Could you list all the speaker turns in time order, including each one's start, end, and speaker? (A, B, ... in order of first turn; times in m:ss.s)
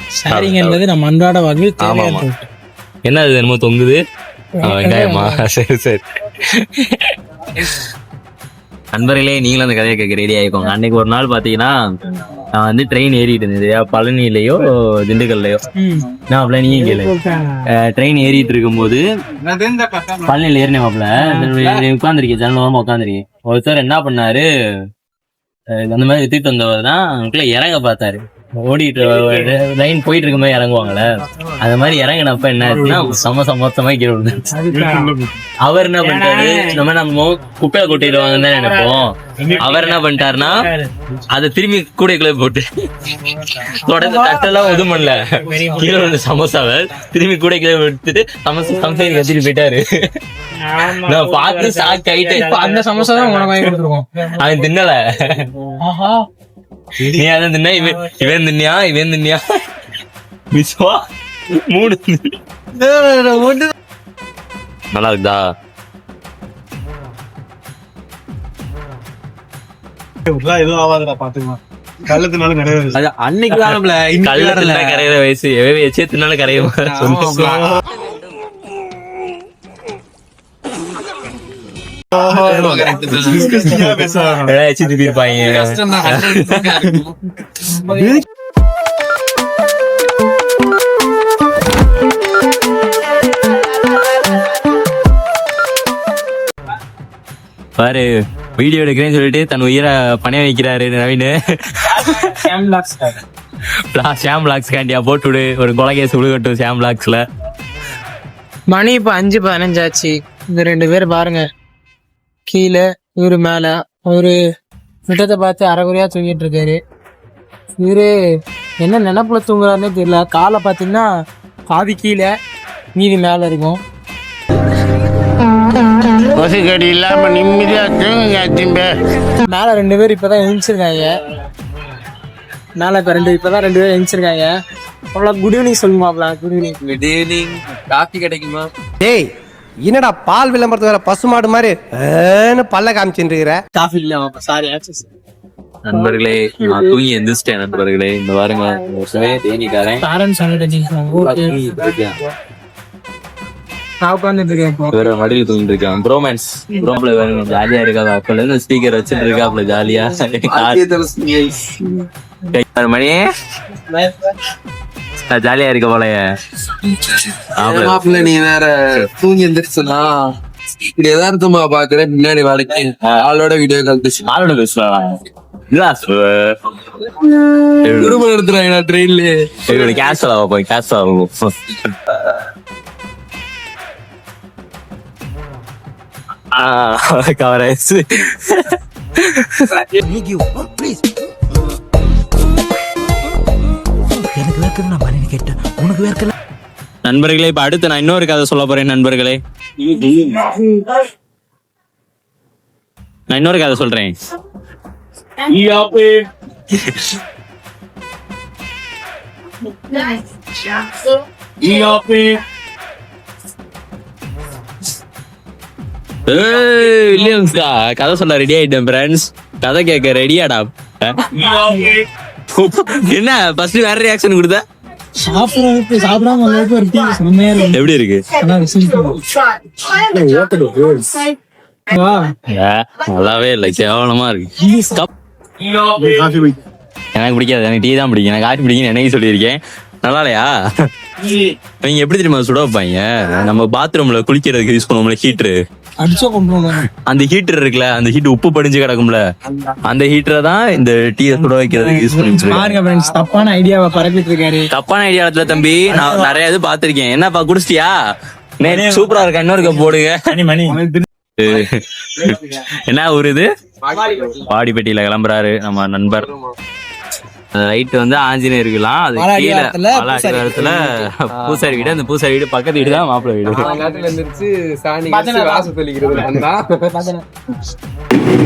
0:00.2-0:02.4 A
0:00.3-0:00.8 B
0:01.8-0:02.2 B
0:03.0-0:04.0 B
0:04.6-0:05.4 A
0:04.6-0:07.8 B
0:08.9-0:15.6 B
0:15.8-0:16.0 A
0:16.3-0:17.1 B
0:16.8-0:17.6 A
0:17.7-0:19.0 B
0:20.1-0:24.5 B
0:25.7-0:34.4 B
0:32.6-0:33.2 C
0:34.5-0:35.1 A
0:34.7-0:35.4 C
0:35.6-0:40.6 B
0:36.0-0:36.8 A
0:39.4-0:40.9 A
0:41.3-0:42.7 B
0:43.6-0:50.1 B
0:44.0-0:44.8 A
0:45.5-0:46.1 A
0:50.6-0:54.3 A
0:50.8-0:52.8 B
0:54.2-0:55.5 B
0:55.8-0:56.2 A
0:57.0-0:59.4 B
1:00.5-1:02.3 B
1:02.8-1:03.5 A
1:04.9-1:05.4 B
1:10.2-1:13.0 C
1:12.9-1:17.7 B
1:13.9-1:14.3 D
1:16.6-1:17.7 D
1:17.4-1:17.7 C
1:22.1-1:23.5 D
1:23.2-1:27.0 B
1:23.6-1:24.5 C
1:25.6-1:27.1 D
1:27.7-1:28.2 A
1:37.8-1:42.4 B
1:42.0-1:43.2 A
1:43.9-1:47.2 B
1:48.7-1:51.4 A
1:52.5-1:54.4 A
1:55.1-1:56.8 A
1:57.8-1:58.1 A
1:58.8-2:01.1 A
2:01.7-2:02.3 A
2:02.9-2:03.8 A
2:06.3-2:08.9 E
2:09.4-2:11.2 A
2:12.8-2:14.5 A
2:15.1-2:16.8 A
2:16.8-2:18.7 D
2:19.0-2:19.3 F
2:19.8-2:23.6 F
2:23.7-2:25.0 A
2:25.8-2:30.0 B
2:25.9-2:26.9 A
2:30.0-2:31.6 A
2:31.1-2:32.2 B
2:34.0-2:34.9 A
2:34.9-2:40.8 B
2:40.4-2:41.9 D
2:42.5-2:43.2 B
2:45.3-2:46.2 B
2:47.1-2:50.3 D
2:47.5-2:48.2 B
2:50.9-2:54.2 D
2:54.2-2:56.8 B
2:57.8-2:58.2 B
2:57.9-3:00.0 D
2:59.6-3:02.4 B
3:06.5-3:11.0 B
3:14.1-3:16.3 B
3:17.0-3:20.8 B
3:23.3-3:24.1 B
3:25.4-3:26.3 B
3:31.6-3:32.4 B
3:36.2-3:44.6 B
3:45.2-3:47.8 A
3:47.7-3:48.2 B
3:48.4-3:49.3 A
3:50.5-3:50.8 C
3:51.9-3:52.3 A
3:52.5-3:55.1 B
3:56.1-3:56.5 C
3:57.1-4:00.5 B
4:01.2-4:05.6 B
4:06.0-4:06.8 A
4:07.0-4:09.2 B
4:09.8-4:12.8 B
4:11.9-4:14.7 A
4:14.7-4:17.9 B
4:18.6-4:20.4 B
4:18.7-4:19.0 C
4:20.7-4:21.0 C
4:21.4-4:23.5 B
4:23.8-4:24.4 D
4:24.4-4:26.3 B
4:26.2-4:26.4 D
4:27.5-4:33.7 B
4:29.2-4:30.8 A
4:31.3-4:32.0 D
4:32.8-4:36.9 D
4:33.5-4:34.0 A
4:35.0-4:37.2 A